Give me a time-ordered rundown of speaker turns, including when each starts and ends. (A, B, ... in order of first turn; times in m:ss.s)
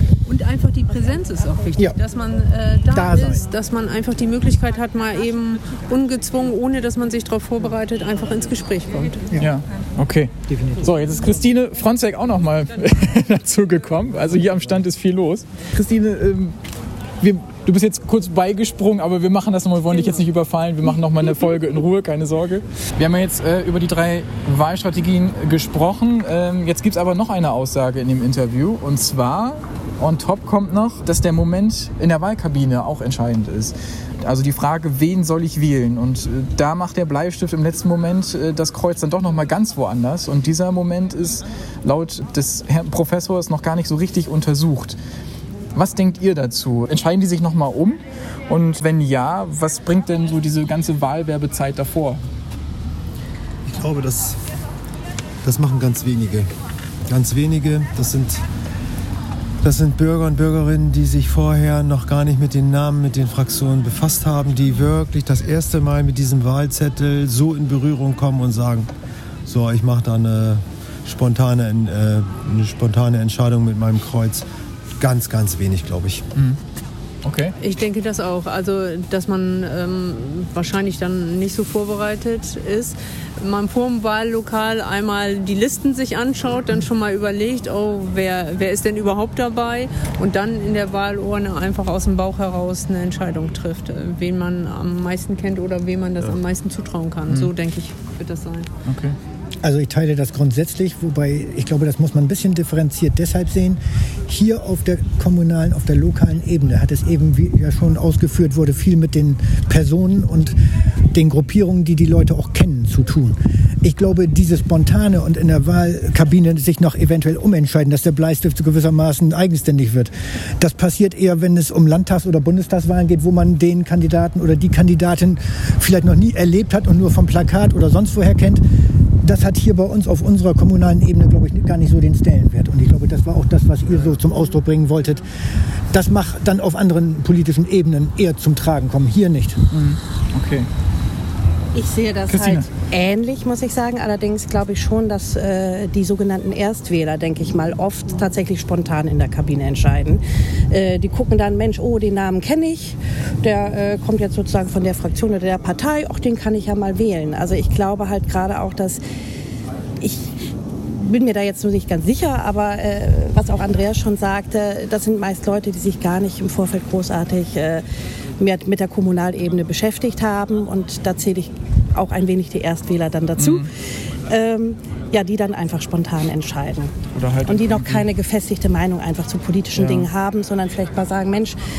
0:00.3-0:09.2 A
0:02.9-0:03.4 B
0:09.4-0:16.6 C
0:10.5-0:10.9 B
0:17.2-0:45.0 C
0:45.8-0:52.2 C
0:53.7-0:54.4 D
0:55.4-0:56.5 D
0:57.1-0:58.4 D
0:59.6-1:08.9 D
1:09.5-1:14.4 D
1:15.0-1:16.2 D
1:17.2-1:17.6 C
1:17.6-1:38.7 A
1:38.9-1:39.2 C
1:39.6-1:50.6 B
1:51.1-2:08.6 B
2:09.2-2:15.2 B
2:15.9-2:19.6 B
2:19.7-2:20.7 C
2:21.7-2:39.0 E
2:22.3-2:22.7 C
2:40.0-2:40.4 E
2:41.0-2:47.8 E
2:48.4-2:53.7 E
2:53.4-2:53.7 C
2:54.3-2:56.9 E
2:57.1-2:58.1 C
2:57.5-3:01.6 E
2:59.8-3:00.1 C